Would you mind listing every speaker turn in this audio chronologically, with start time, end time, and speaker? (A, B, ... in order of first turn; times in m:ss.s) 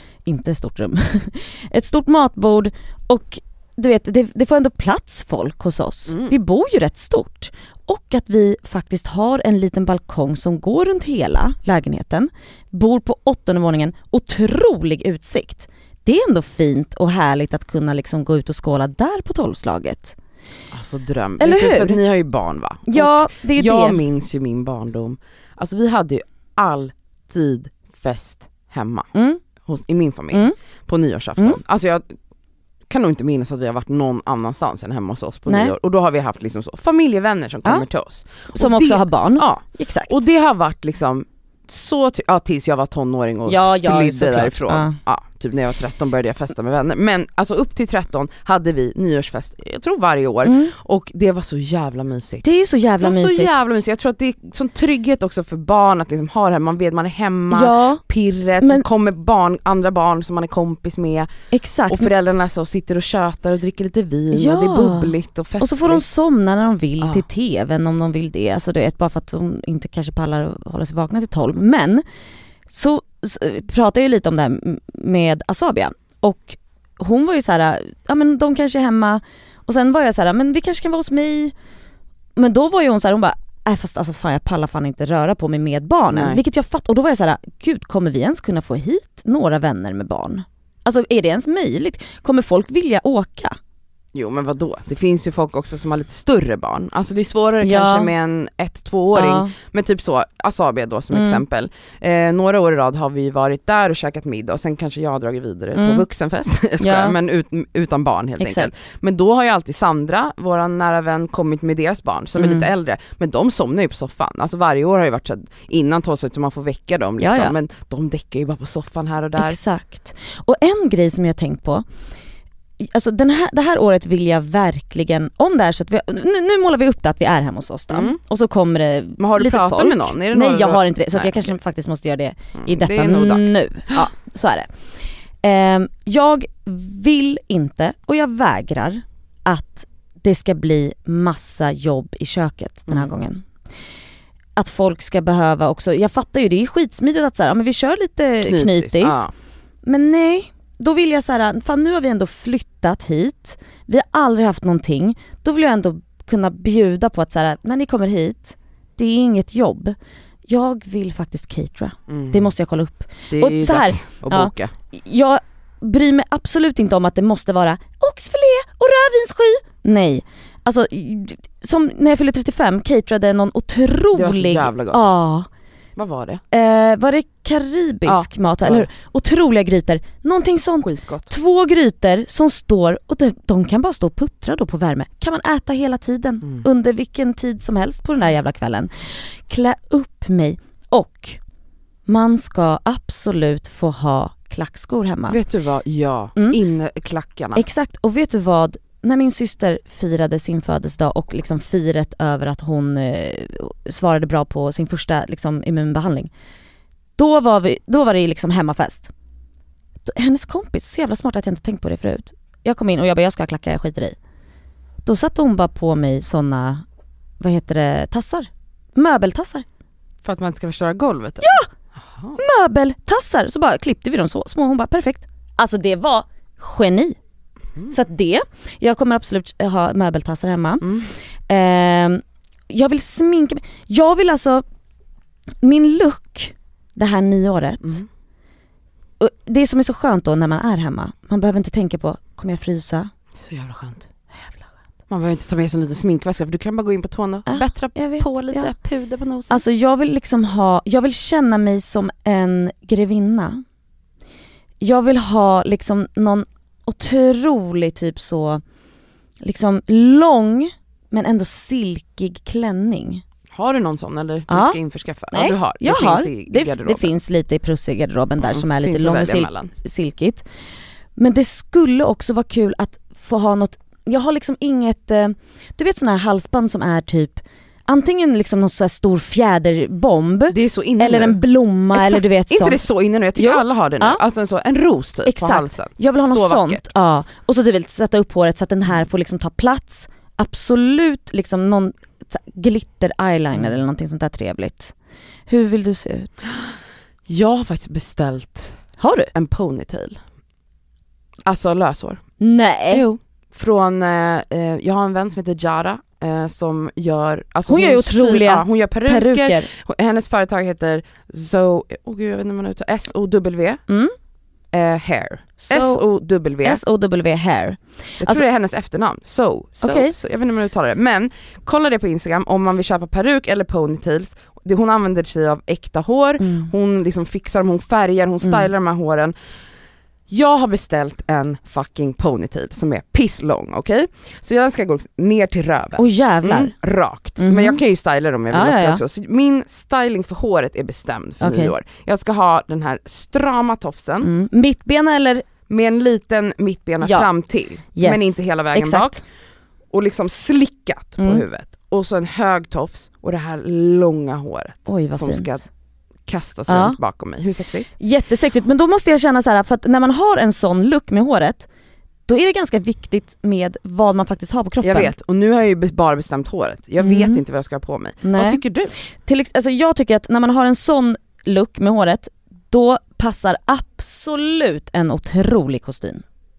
0:00.2-0:20.2 A
0:06.1-0:06.3 B
0:20.7-0:29.1 B
0:21.4-0:22.0 A
0:22.9-0:24.0 A
0:29.1-0:29.4 A
0:29.6-0:32.0 B
0:32.9-0:52.4 B
0:35.5-0:35.8 A
0:38.5-0:40.2 A
0:43.4-0:45.0 A
0:50.4-0:50.7 A
0:52.4-0:53.6 A
0:53.0-1:01.3 B
0:57.5-0:58.8 A
1:01.5-1:02.1 A
1:01.9-1:06.0 B
1:04.3-1:12.0 A
1:07.0-1:07.2 B
1:12.7-1:21.5 A
1:22.4-1:33.6 A
1:26.1-1:26.4 B
1:34.1-1:59.6 B
1:37.6-1:38.1 A
1:39.1-1:39.5 A
1:41.1-1:41.4 A
1:45.8-1:46.0 A
1:46.8-1:47.2 A
1:48.4-1:48.7 A
1:52.4-1:52.7 A
1:57.2-1:57.6 A
1:59.4-2:01.8 A
2:02.8-2:14.7 A
2:07.9-2:08.2 B
2:09.2-2:11.5 B
2:12.6-2:14.0 B
2:15.4-2:23.4 A
2:24.6-2:29.3 A
2:28.4-2:29.3 B
2:29.8-2:40.0 A
2:40.5-2:55.5 A
2:42.1-2:42.5 B
2:43.3-2:44.7 B
2:54.1-2:55.1 B
2:56.0-2:56.4 B
2:56.5-3:11.4 A
2:58.0-2:58.9 B
3:00.8-3:01.3 B
3:12.0-3:15.4 A
3:15.3-3:17.6 B
3:17.5-3:26.3 A
3:27.2-3:29.1 A
3:30.0-3:34.2 A
3:35.0-3:36.8 A
3:37.4-3:39.6 A
3:40.2-3:42.4 B
3:41.4-3:41.7 A
3:42.4-3:47.2 A
3:47.9-3:51.0 A
3:50.8-3:51.1 B
3:51.5-3:54.6 A
3:55.6-3:58.0 A
3:59.2-4:03.1 A
4:03.4-4:04.1 B
4:05.1-4:09.6 B
4:07.5-4:08.7 A
4:09.5-4:13.6 A
4:14.8-4:18.6 A
4:19.4-4:23.2 A
4:23.5-4:27.1 B
4:24.5-4:24.8 A
4:25.3-4:30.4 A
4:28.4-4:29.7 B
4:31.2-4:44.2 A
4:40.5-4:41.4 B
4:41.9-4:46.8 B
4:45.2-4:54.9 A
4:53.5-4:53.8 B
4:55.5-4:56.4 A
4:57.3-4:58.8 B
4:59.0-4:59.3 A
4:59.3-5:00.2 B
5:01.5-5:02.2 B
5:02.4-5:03.1 A
5:02.9-5:13.8 B
5:07.7-5:09.7 A
5:13.9-5:14.1 A
5:14.7-5:16.8 B
5:15.6-5:16.0 A
5:16.6-5:18.4 A
5:18.2-5:29.4 B
5:19.8-5:20.1 A
5:26.4-5:26.7 A
5:30.3-5:44.3 B
5:36.0-5:36.7 A
5:37.4-5:37.8 A
5:38.5-5:39.0 A
5:41.4-5:41.8 A
5:44.2-5:45.5 A
5:45.7-5:49.2 B
5:47.0-5:47.3 A
5:47.9-5:49.2 A
5:49.9-5:55.7 B
5:51.2-5:51.4 A
5:54.9-5:55.6 A
5:56.2-5:57.9 B
5:56.7-5:57.0 A
5:58.0-6:01.7 A
6:02.3-6:05.1 A
6:04.8-6:08.9 B
6:07.0-6:07.4 A
6:08.2-6:08.6 A
6:09.2-6:16.2 A